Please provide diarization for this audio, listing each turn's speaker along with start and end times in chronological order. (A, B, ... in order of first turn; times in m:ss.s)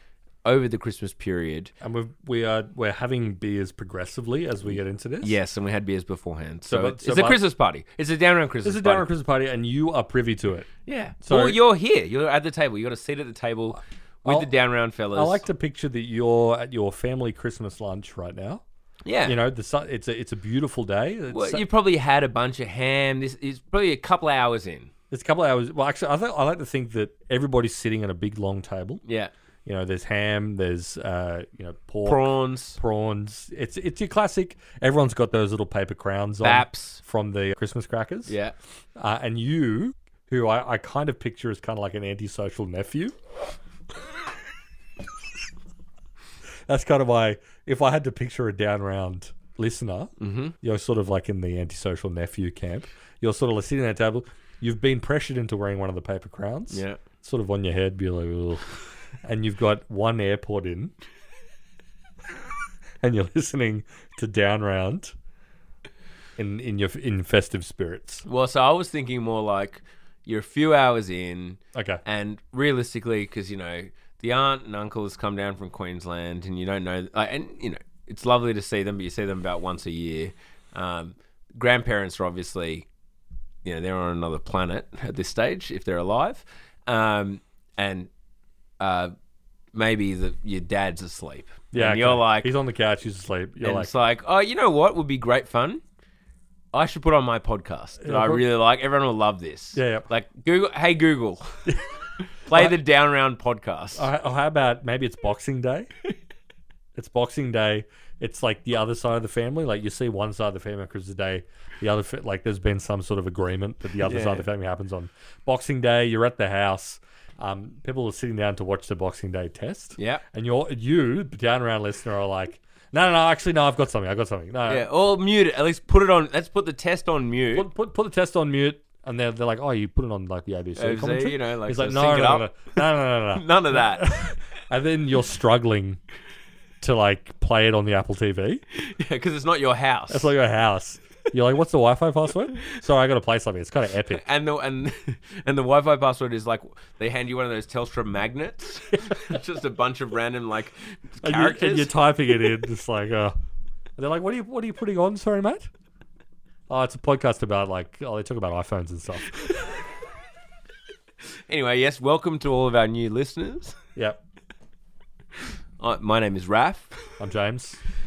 0:00.4-0:01.7 A
0:01.8-0:05.4 B
0:04.7-0:09.1 A
0:06.7-0:07.4 B
0:08.6-0:10.7 B
0:10.8-0:15.4 A
0:11.2-0:11.6 B
0:14.2-0:14.5 B
0:15.1-0:18.6 B
0:19.0-0:19.4 A
0:19.2-0:21.6 B
0:21.3-0:24.9 A
0:25.1-0:29.0 B
0:29.0-0:29.3 A
0:29.6-0:38.3 B
0:32.0-0:32.8 A
0:36.4-0:37.0 A
0:38.3-0:38.5 A
0:39.0-0:43.1 B
0:46.7-0:58.7 B
0:50.2-0:50.5 A
0:56.7-0:57.0 A
0:59.2-1:00.9 B
1:03.0-1:05.1 B
1:06.4-1:08.2 B
1:08.2-1:22.9 A
1:11.7-1:12.0 B
1:23.6-1:28.1 A
1:28.8-1:29.1 A
1:29.7-1:32.5 A
1:31.7-1:33.9 B
1:33.6-1:35.8 A
1:36.7-1:41.5 A
1:38.0-1:38.4 B
1:39.7-1:40.1 B
1:42.4-1:44.1 A
1:42.5-1:42.8 B
1:44.0-1:45.9 B
1:46.9-2:04.9 B
1:54.0-1:54.5 A
2:00.0-2:00.2 A
2:04.7-2:07.7 A
2:07.5-2:16.0 B
2:10.8-2:14.2 A
2:16.8-2:18.6 B
2:18.7-2:20.3 A
2:20.1-2:24.2 B
2:24.1-2:31.9 A
2:31.2-2:33.3 B
2:34.0-2:35.7 B
2:36.7-2:39.4 B
2:41.5-2:43.8 A
2:44.0-2:44.2 B
2:45.8-2:47.0 A
2:47.2-2:47.8 B